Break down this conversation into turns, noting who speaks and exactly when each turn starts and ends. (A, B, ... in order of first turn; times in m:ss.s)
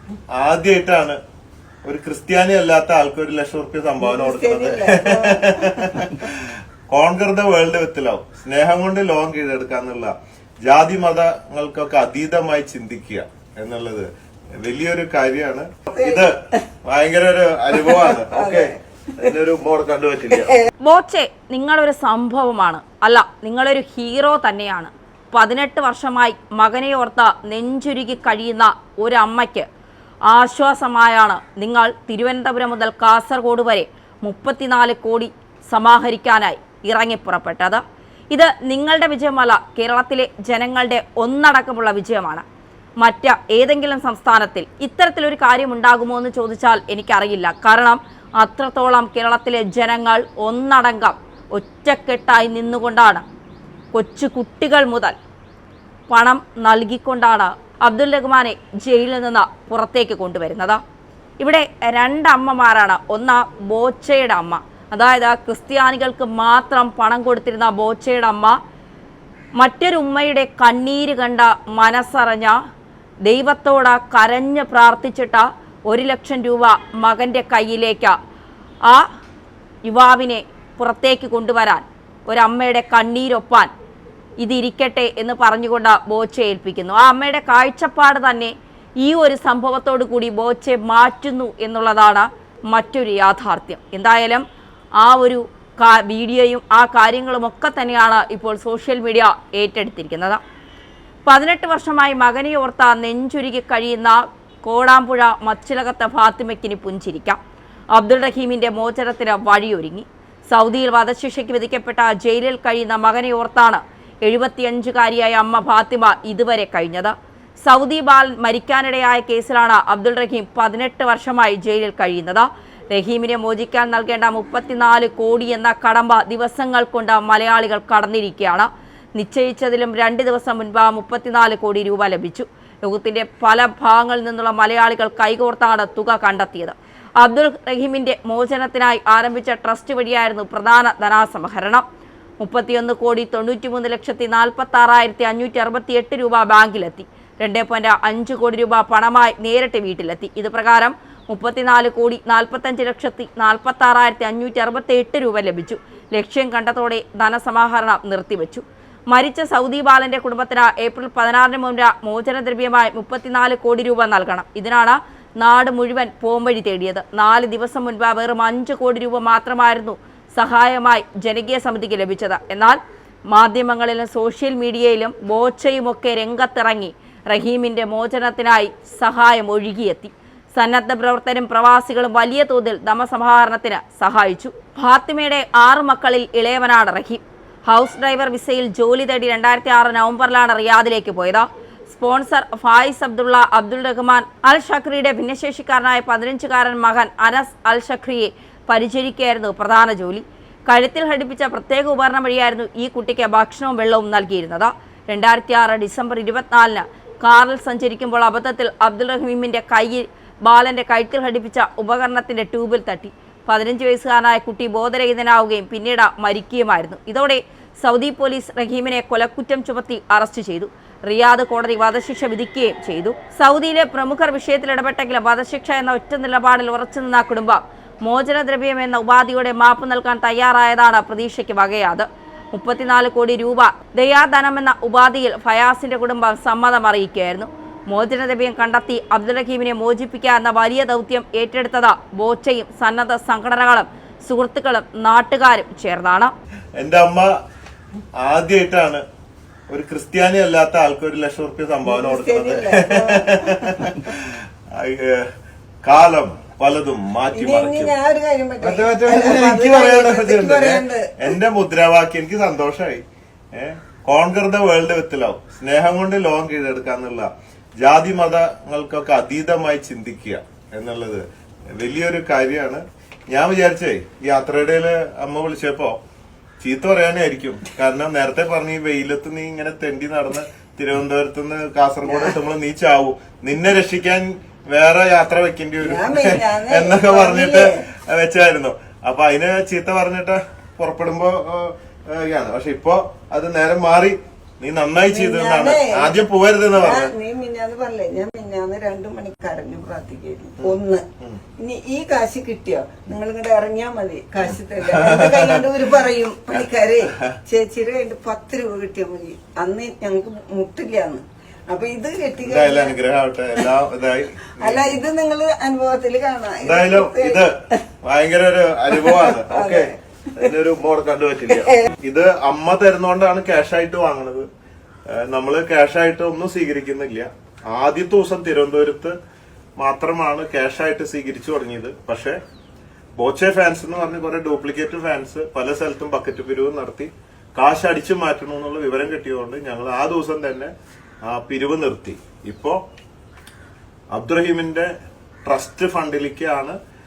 0:00.3-0:01.2 A
0:01.8-0:10.1 A
0:04.0-0:06.1 B
0:10.6-0:14.1 A
0:14.6-0:20.6 A
0:18.3-0:18.7 B
0:20.8-0:29.7 C
0:30.3-0:37.8 C
0:38.3-0:42.4 C
0:43.0-0:53.2 C
0:53.9-0:55.2 C
0:56.1-1:00.8 C
1:01.4-1:08.6 C
1:09.6-1:12.6 C
1:13.2-1:18.1 C
1:19.9-1:23.7 C
1:24.4-1:34.4 C
1:35.0-1:40.4 C
1:41.3-1:47.4 C
1:47.9-1:57.1 C
1:57.6-2:21.8 C
2:22.4-2:52.8 C
2:53.3-4:06.3 C
4:06.8-4:07.3 A
4:08.2-4:09.0 A
4:09.7-4:15.3 A
4:11.8-4:13.9 B
4:15.8-4:17.9 A
4:17.3-4:21.3 B
4:18.6-4:27.3 A
4:27.8-4:36.0 A
4:36.6-4:57.1 A
4:45.8-4:47.8 B
4:55.1-4:56.2 B
4:56.8-5:01.0 B
5:00.6-5:01.4 A
5:01.6-5:13.0 B
5:04.8-5:05.6 A
5:12.4-5:15.0 A
5:14.6-5:17.5 B
5:16.6-5:24.5 A
5:19.0-5:19.9 B
5:25.1-5:29.2 A
5:29.8-5:32.4 A
5:33.2-5:40.7 A
5:41.3-5:42.8 A
5:44.1-5:44.9 A
5:45.4-5:46.8 A